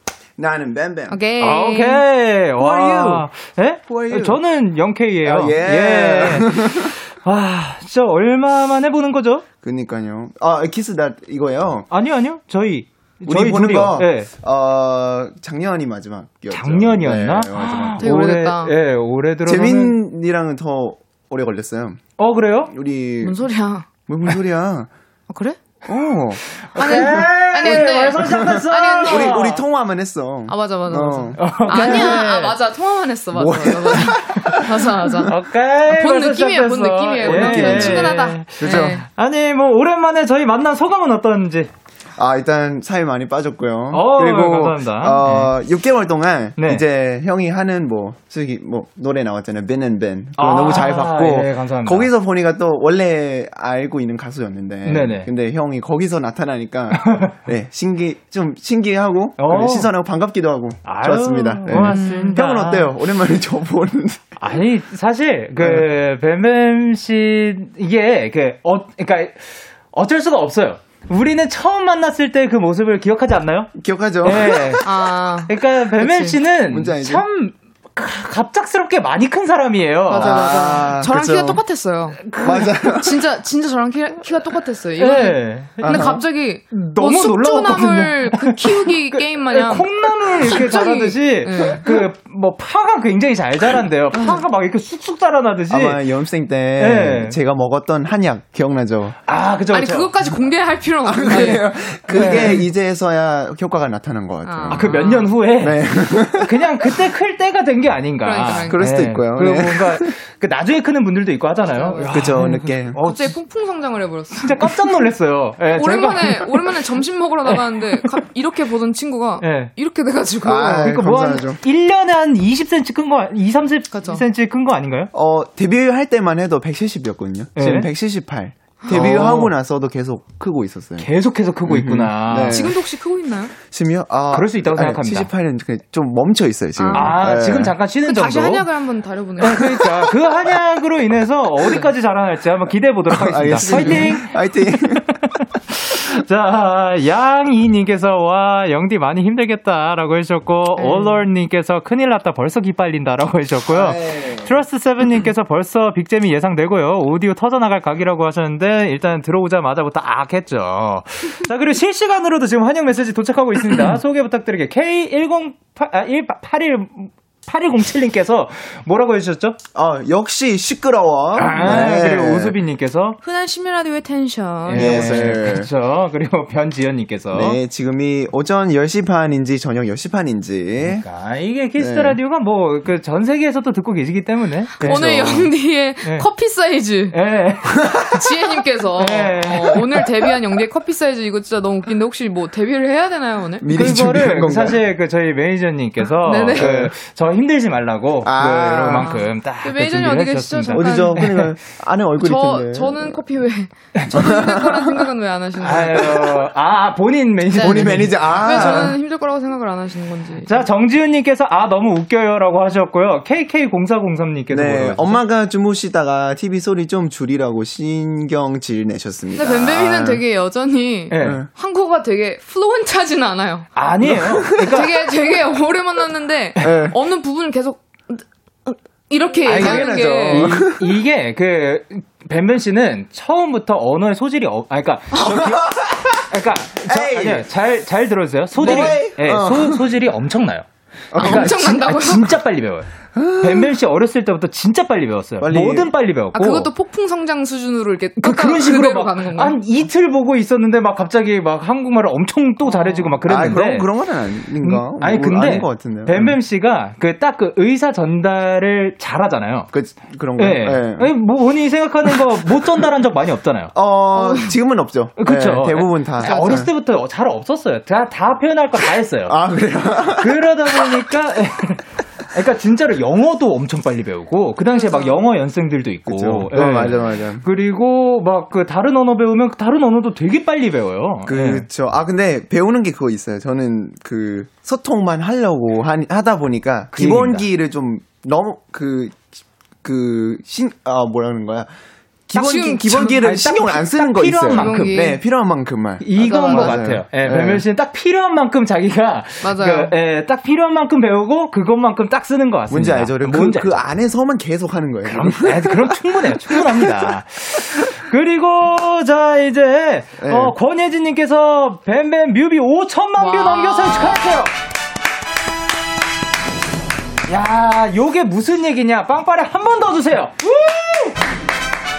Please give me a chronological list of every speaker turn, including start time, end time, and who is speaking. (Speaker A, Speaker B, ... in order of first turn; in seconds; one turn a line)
Speaker A: 0.4-1.2
Speaker B: 1.1-2.0
Speaker C: 1.4-9.4
Speaker A: 2.6-3.3
Speaker A: 3.9-4.4
Speaker A: 5.2-6.9
Speaker A: 9.6-11.9
Speaker C: 11.9-14.3
Speaker A: 13.2-18.2
Speaker C: 16.5-19.9
Speaker B: 18.0-18.7
Speaker A: 19.4-22.0
Speaker C: 22.2-22.7
Speaker A: 22.6-23.4
Speaker B: 23.2-23.9
Speaker A: 24.1-24.9
Speaker B: 25.3-25.6
Speaker A: 25.9-32.2
Speaker C: 26.6-29.6
Speaker B: 26.8-29.5
Speaker B: 30.5-35.3
Speaker C: 31.4-32.5
Speaker A: 33.3-35.3
Speaker C: 35.2-41.7
Speaker B: 35.9-39.0
Speaker A: 37.2-39.0
Speaker A: 42.1-64.4
Speaker C: 43.9-45.5
Speaker C: 46.6-46.8
Speaker C: 50.4-52.1
Speaker C: 54.8-55.3
Speaker C: 57.0-57.4
Speaker C: 59.4-59.9
Speaker C: 60.8-62.9
Speaker B: 61.7-62.4
Speaker C: 64.4-73.7
Speaker A: 65.6-65.9
Speaker A: 73.7-74.9
Speaker C: 74.2-74.8
Speaker B: 74.8-76.3
Speaker C: 75.5-80.5
Speaker A: 76.6-77.2
Speaker B: 80.1-92.0
Speaker A: 80.1-81.6
Speaker C: 82.2-82.8
Speaker A: 82.4-83.2
Speaker C: 85.0-96.0
Speaker A: 85.8-86.2
Speaker B: 94.1-94.4
Speaker A: 95.7-99.2
Speaker C: 96.8-97.4
Speaker C: 99.2-100.1
Speaker B: 99.7-102.6
Speaker A: 101.0-105.0
Speaker C: 102.1-102.6
Speaker B: 104.4-105.3
Speaker C: 104.7-113.3
Speaker A: 105.6-106.9
Speaker B: 108.2-108.8
Speaker A: 108.7-110.1
Speaker B: 111.6-112.2
Speaker A: 112.1-113.0
Speaker B: 113.0-114.9
Speaker C: 114.3-116.7
Speaker B: 115.7-121.0
Speaker C: 117.5-118.2
Speaker C: 119.4-119.7
Speaker A: 120.4-121.6
Speaker C: 120.7-125.1
Speaker B: 123.9-124.2
Speaker A: 125.1-131.1
Speaker C: 127.5-127.9
Speaker B: 128.8-129.1
Speaker C: 128.9-129.5
Speaker C: 131.0-132.6
Speaker A: 131.7-132.8
Speaker B: 132.4-133.5
Speaker A: 133.7-137.7
Speaker C: 134.3-135.3
Speaker B: 136.8-137.2
Speaker C: 136.9-138.7
Speaker B: 138.0-139.9
Speaker C: 139.4-144.3
Speaker A: 143.1-145.1
Speaker B: 143.6-144.0
Speaker C: 145.1-169.6
Speaker B: 150.8-151.2
Speaker A: 153.7-154.6
Speaker A: 169.7-172.6
Speaker C: 171.3-173.2
Speaker B: 173.2-175.2
Speaker C: 174.7-177.6
Speaker A: 174.7-175.7
Speaker A: 177.3-181.0
Speaker C: 180.8-185.5
Speaker A: 181.8-182.2
Speaker A: 184.8-185.5
Speaker B: 184.8-187.2
Speaker C: 187.1-188.0
Speaker B: 187.9-193.7
Speaker C: 189.0-190.0
Speaker A: 193.6-194.8
Speaker C: 193.7-201.5
Speaker B: 196.2-196.7
Speaker A: 196.5-196.9
Speaker A: 198.2-199.2
Speaker B: 198.8-201.4
Speaker A: 200.7-203.2
Speaker B: 202.2-206.4
Speaker A: 204.1-205.1
Speaker C: 205.6-208.9
Speaker B: 207.5-210.7
Speaker A: 207.6-209.0
Speaker C: 210.4-215.2
Speaker A: 214.5-220.2
Speaker B: 219.3-223.7
Speaker C: 221.1-221.4
Speaker A: 221.2-221.5
Speaker C: 223.7-225.0
Speaker A: 224.0-224.7
Speaker B: 224.5-230.6
Speaker A: 226.6-227.0
Speaker C: 229.4-246.7
Speaker A: 229.4-231.0
Speaker A: 235.2-236.3
Speaker A: 236.8-237.5
Speaker A: 238.6-239.9
Speaker B: 238.6-239.0
Speaker A: 241.1-241.6
Speaker B: 241.2-242.3
Speaker A: 243.1-243.7
Speaker A: 245.4-245.9
Speaker B: 246.3-249.6
Speaker C: 248.2-253.9
Speaker B: 252.7-253.2
Speaker A: 253.2-256.4
Speaker C: 254.6-259.7
Speaker A: 259.7-261.1
Speaker C: 260.4-263.7
Speaker A: 263.7-266.7
Speaker B: 264.1-264.5
Speaker C: 265.2-269.4
Speaker B: 266.2-266.6
Speaker A: 269.2-270.4
Speaker C: 270.1-281.6
Speaker B: 274.8-275.2
Speaker A: 276.1-277.4
Speaker A: 281.2-289.3
Speaker C: 286.9-287.5
Speaker A: 289.8-291.7
Speaker A: 292.3-297.6
Speaker B: 292.3-293.2
Speaker C: 293.1-295.0
Speaker B: 294.5-295.2
Speaker C: 296.0-303.8
Speaker B: 296.2-296.8
Speaker B: 299.4-299.9
Speaker A: 302.7-307.1
Speaker C: 305.1-314.5
Speaker A: 310.2-310.5
Speaker B: 313.2-314.4
Speaker C: 317.3-321.2